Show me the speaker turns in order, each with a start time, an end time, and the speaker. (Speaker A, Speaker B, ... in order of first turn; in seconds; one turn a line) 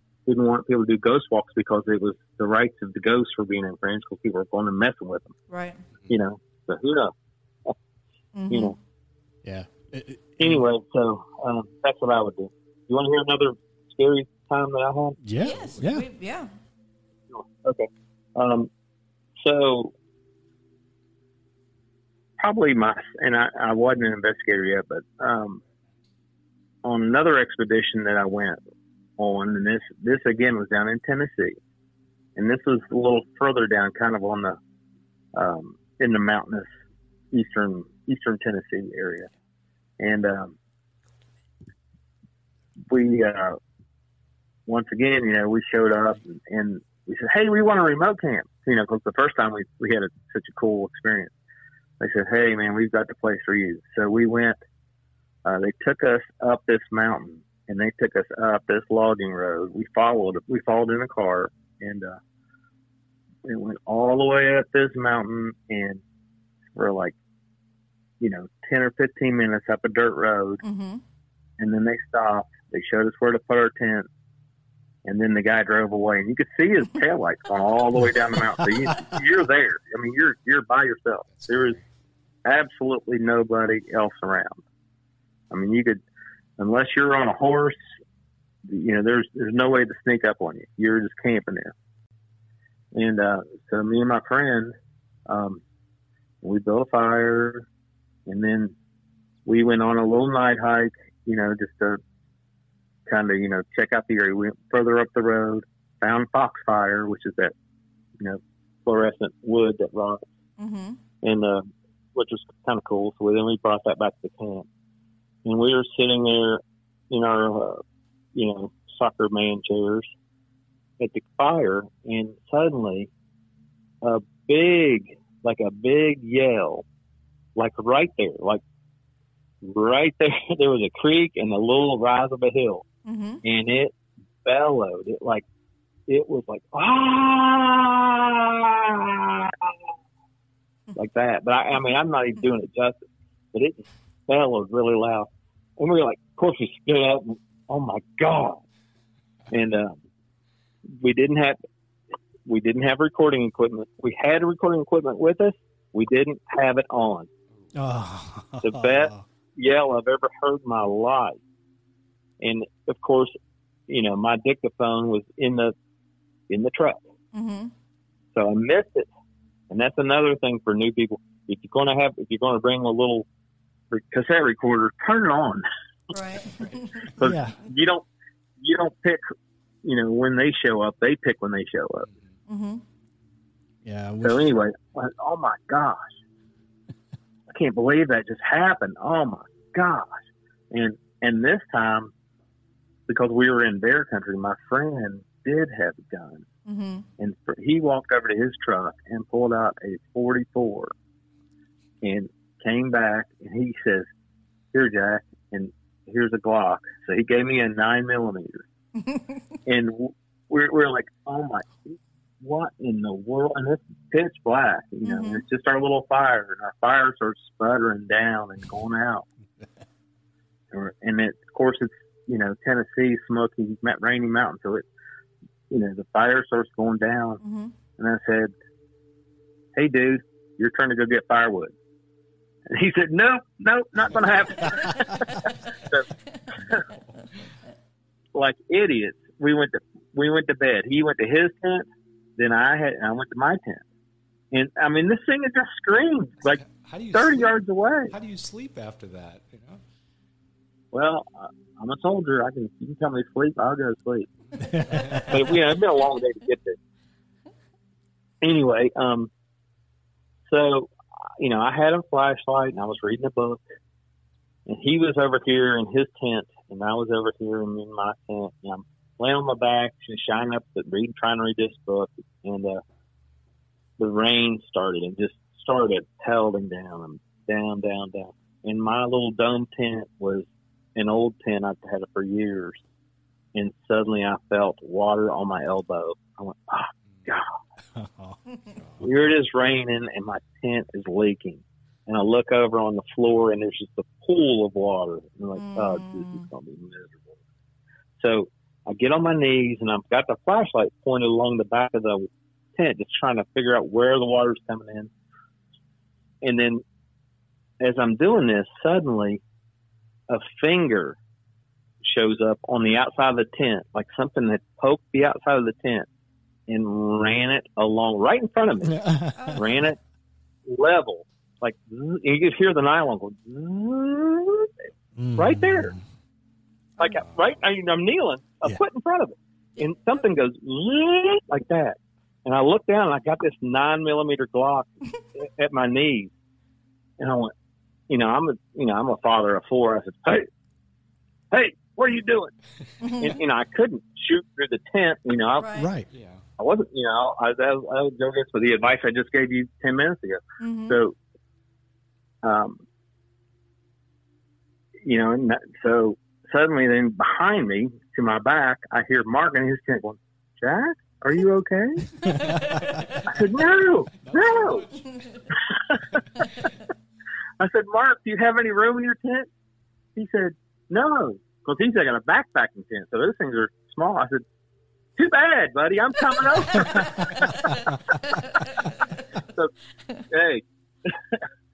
Speaker A: 0.3-5.3
Speaker B: 5.5-5.8
Speaker A: 6.1-7.1
Speaker B: 8.3-8.8
Speaker A: 8.5-8.8
Speaker C: 9.4-10.6
Speaker A: 10.4-15.2
Speaker C: 15.2-16.1
Speaker B: 15.4-16.5
Speaker A: 17.3-18.7
Speaker A: 19.4-19.9
Speaker A: 22.4-25.6
Speaker A: 26.8-28.6
Speaker A: 29.2-31.6
Speaker A: 32.4-34.6
Speaker A: 35.4-36.7
Speaker A: 37.3-39.3
Speaker A: 40.0-40.5
Speaker A: 42.9-43.6
Speaker A: 44.7-51.3
Speaker A: 52.0-54.6
Speaker A: 55.4-62.2
Speaker A: 63.4-66.0
Speaker A: 66.7-67.1
Speaker A: 68.2-70.6
Speaker B: 70.6-71.0
Speaker A: 71.6-74.1
Speaker A: 75.0-81.8
Speaker D: 81.3-81.9
Speaker A: 82.4-84.6
Speaker A: 85.5-86.0
Speaker A: 86.6-87.8
Speaker A: 88.6-91.7
Speaker A: 92.9-94.8
Speaker A: 95.3-95.6
Speaker A: 96.4-97.7
Speaker A: 98.3-98.7
Speaker A: 99.5-102.0
Speaker A: 103.1-107.5
Speaker A: 108.2-110.2
Speaker B: 110.6-111.0
Speaker A: 111.2-114.7
Speaker A: 115.4-117.8
Speaker A: 118.3-120.1
Speaker A: 121.0-123.1
Speaker A: 124.0-126.8
Speaker A: 127.6-128.6
Speaker A: 129.6-132.8
Speaker B: 133.1-133.4
Speaker A: 133.4-135.4
Speaker A: 136.1-139.8
Speaker A: 140.9-143.0
Speaker A: 144.3-148.6
Speaker A: 149.5-150.0
Speaker A: 151.0-151.6
Speaker A: 152.4-157.3
Speaker C: 157.7-159.2
Speaker A: 158.6-161.4
Speaker A: 162.4-163.3
Speaker A: 163.9-165.8
Speaker A: 166.5-167.0
Speaker B: 167.3-167.7
Speaker A: 168.3-169.1
Speaker A: 169.7-173.3
Speaker A: 173.9-175.6
Speaker B: 176.1-177.1
Speaker A: 177.2-178.1
Speaker C: 177.2-177.6
Speaker A: 178.6-179.3
Speaker A: 179.8-182.1
Speaker B: 182.5-182.8
Speaker C: 183.8-184.5
Speaker A: 184.2-186.1
Speaker A: 187.5-190.1
Speaker A: 190.7-192.1
Speaker A: 193.1-196.4
Speaker B: 196.7-197.1
Speaker A: 197.2-200.9
Speaker A: 202.0-204.1
Speaker A: 204.7-208.6
Speaker B: 209.0-209.4
Speaker A: 209.7-219.2
Speaker B: 215.0-215.4
Speaker A: 220.7-224.9
Speaker A: 225.7-227.4
Speaker B: 227.4-227.7
Speaker A: 228.0-228.5
Speaker A: 229.8-231.7
Speaker A: 232.7-236.1
Speaker A: 238.3-241.9
Speaker A: 242.4-243.8
Speaker A: 244.5-248.1
Speaker D: 246.5-249.8
Speaker A: 250.9-256.8
Speaker C: 254.6-255.2
Speaker D: 255.1-255.4
Speaker A: 258.4-259.3
Speaker A: 260.5-263.6
Speaker A: 264.7-272.8
Speaker A: 274.0-282.8
Speaker A: 283.6-287.5
Speaker C: 287.9-288.4
Speaker A: 289.0-297.3
Speaker B: 295.6-296.5
Speaker A: 298.2-305.1
Speaker A: 306.4-306.8
Speaker A: 307.8-309.4
Speaker A: 310.3-311.2
Speaker A: 312.0-316.1
Speaker A: 316.7-320.0
Speaker C: 318.9-319.6
Speaker B: 319.3-319.6
Speaker A: 320.6-324.7
Speaker C: 325.1-326.0
Speaker A: 325.4-325.9
Speaker A: 327.0-336.3
Speaker D: 327.2-327.6
Speaker A: 337.2-337.5
Speaker A: 338.1-340.5
Speaker A: 341.5-342.5
Speaker B: 343.0-343.4
Speaker A: 343.2-345.8
Speaker B: 345.6-345.9
Speaker C: 345.8-346.1
Speaker D: 346.1-346.4
Speaker A: 346.6-351.1
Speaker B: 350.6-351.0
Speaker A: 352.4-352.8
Speaker A: 355.0-362.4
Speaker B: 362.3-362.8
Speaker C: 362.4-362.6
Speaker A: 363.2-365.0
Speaker D: 364.2-365.5
Speaker A: 365.5-366.5
Speaker D: 366.1-366.4
Speaker A: 367.6-369.5
Speaker A: 370.1-374.4
Speaker A: 375.2-378.0
Speaker B: 376.9-377.7
Speaker B: 378.2-379.2
Speaker A: 380.3-381.4